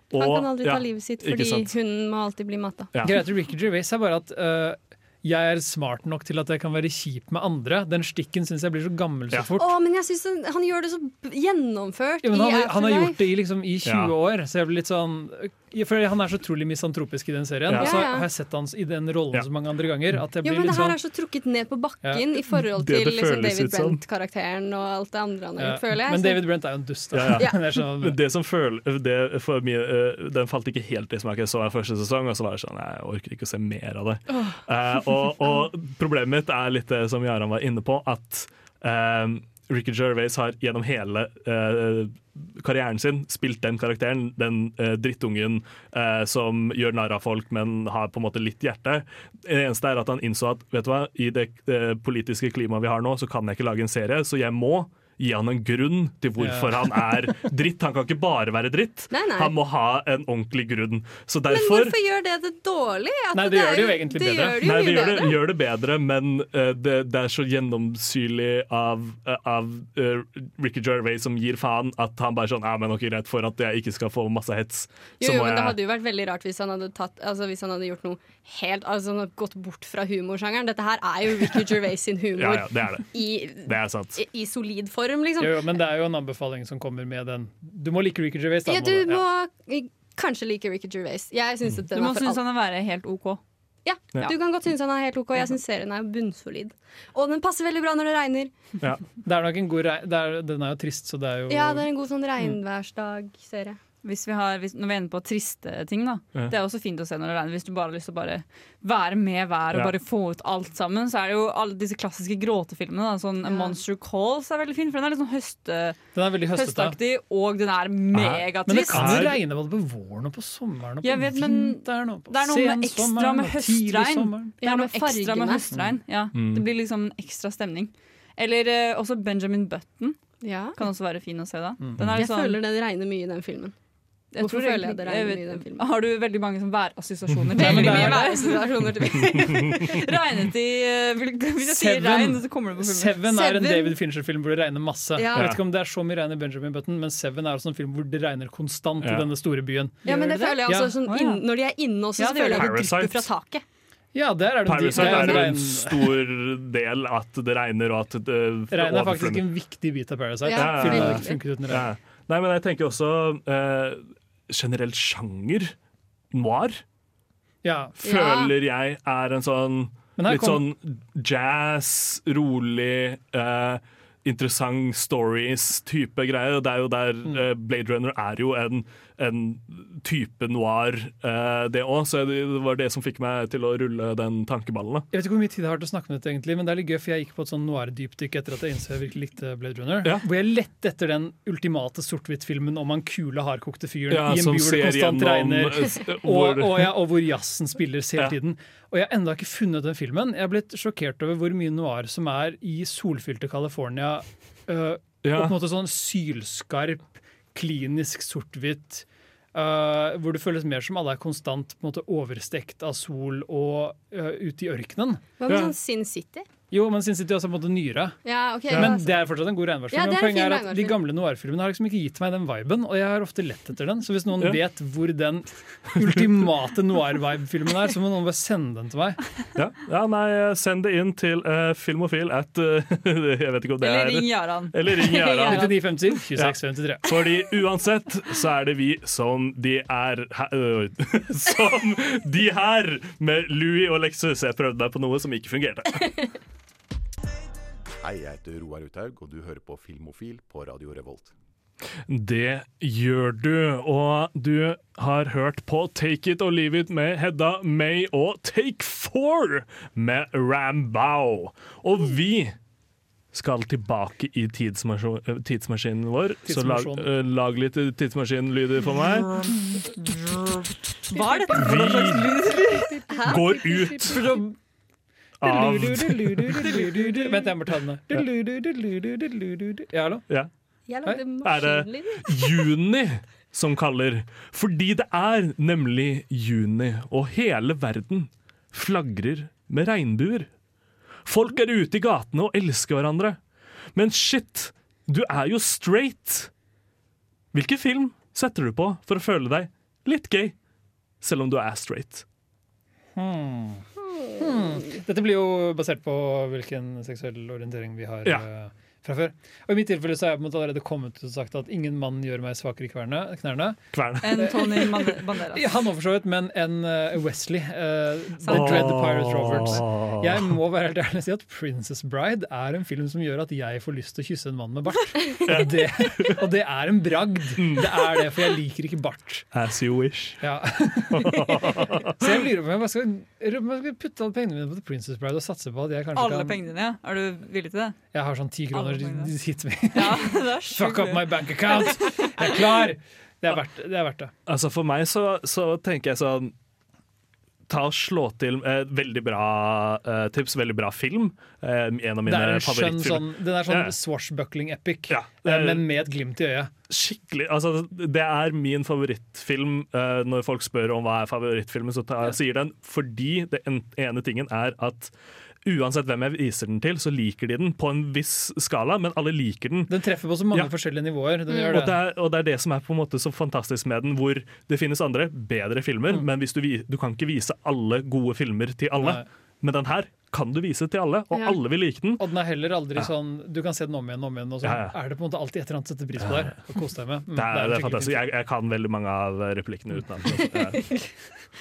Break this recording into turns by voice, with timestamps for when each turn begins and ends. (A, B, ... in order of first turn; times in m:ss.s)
0:00.1-0:01.7 A
0:00.1-0:02.9 B
0:02.9-0:03.2 A
0:03.0-0:09.7 C
0:09.6-0:13.2 B
0:12.2-0:21.0 C
0:13.8-0:14.1 A
0:17.7-0:18.0 A
0:17.8-0:18.3 B
0:20.4-0:26.5 B
0:22.6-0:24.0 A
0:25.6-0:28.2 C
0:27.1-1:02.0 A
0:27.3-0:27.6 B
0:56.4-0:57.3 C
0:59.1-0:59.5 B
1:01.5-1:05.4 B
1:03.3-1:04.7 C
1:04.6-1:15.8 A
1:15.2-1:25.7 B
1:22.4-1:24.2 A
1:25.4-1:29.2 C
1:28.7-1:32.4 B
1:31.9-1:33.4 D
1:33.8-1:38.5 B
1:39.2-1:41.9 C
1:41.5-1:43.8 B
1:44.0-1:56.0 D
1:53.4-1:53.8 B
1:56.1-1:57.0 C
1:56.5-1:59.3 D
1:58.1-1:59.4 A
1:58.7-2:04.5 C
2:01.0-2:10.2 D
2:04.6-2:05.7 B
2:06.3-2:06.6 A
2:10.4-2:10.8 B
2:10.8-2:12.6 D
2:12.1-2:13.7 B
2:14.3-2:18.7 D
2:14.4-2:15.8 B
2:17.5-2:20.0 B
2:17.5-2:18.3 C
2:19.8-2:23.2 D
2:21.6-2:30.0 C
2:23.3-2:24.0 B
2:25.2-2:25.5 B
2:25.3-2:25.6 A
2:30.0-2:33.6 B
2:30.0-2:31.4 D
2:30.6-2:30.9 C
2:32.2-2:32.7 D
2:32.5-2:33.3 A
2:34.1-2:36.2 C
2:34.6-2:39.4 A
2:35.0-2:35.4 B
2:38.7-2:41.9 C
2:40.4-2:41.4 B
2:40.6-2:45.7 A
2:46.3-2:46.8 A
2:47.6-2:47.9 C
2:48.0-3:05.1 A
2:48.0-2:48.5 B
2:50.2-2:50.6 C
3:05.1-3:35.2 C
3:14.1-3:16.9 A
3:25.2-3:25.5 A
3:35.4-3:36.5 B
3:35.5-3:35.7 A
3:36.7-3:38.2 C
3:38.2-3:39.1 B
3:38.7-3:49.2 C
3:39.9-3:41.0 B
3:49.6-3:55.7 A
3:53.8-3:54.7 D
3:55.0-3:55.7 B
3:55.4-3:57.0 C
3:56.3-4:06.3 A
4:08.0-4:11.3 E
4:12.1-4:22.5 A
4:23.3-4:29.4 A
4:26.4-4:27.1 C
4:31.0-4:33.1 D
4:31.1-4:31.8 B
4:31.6-4:32.3 A
4:33.1-4:34.4 B
4:33.3-4:34.2 A
4:34.1-4:34.5 D
4:35.4-4:36.8 A
4:35.4-4:40.2 C
4:36.7-4:37.0 D
4:40.9-4:42.7 B
4:41.4-4:50.5 A
4:51.2-4:53.4 A
4:53.9-4:56.5 A
4:57.5-5:00.5 A
5:01.2-5:02.2 A
5:03.2-5:03.8 C
5:04.0-5:04.8 B
5:04.4-5:29.5 C
5:13.9-5:14.5 A
5:14.2-5:15.7 D
5:18.4-5:18.9 D
5:18.5-5:20.5 A
5:25.4-5:26.4 A
5:27.6-5:28.2 A
5:29.5-5:30.4 A
5:30.4-5:36.6 C
5:31.1-5:32.2 A
5:36.1-5:38.0 D
5:38.1-5:44.3 C
5:38.7-5:39.3 D
5:39.9-5:42.0 D
5:44.5-5:46.5 A
5:47.7-5:53.9 A
5:52.2-5:56.7 C
5:55.1-5:55.8 A
5:56.9-6:05.1 A
6:05.6-6:10.0 A
6:09.9-6:12.0 C
6:11.5-6:22.2 A
6:19.0-6:19.2 C
6:21.3-6:21.6 B
6:22.2-6:28.2 C
6:24.6-6:24.9 A
6:27.3-6:30.8 A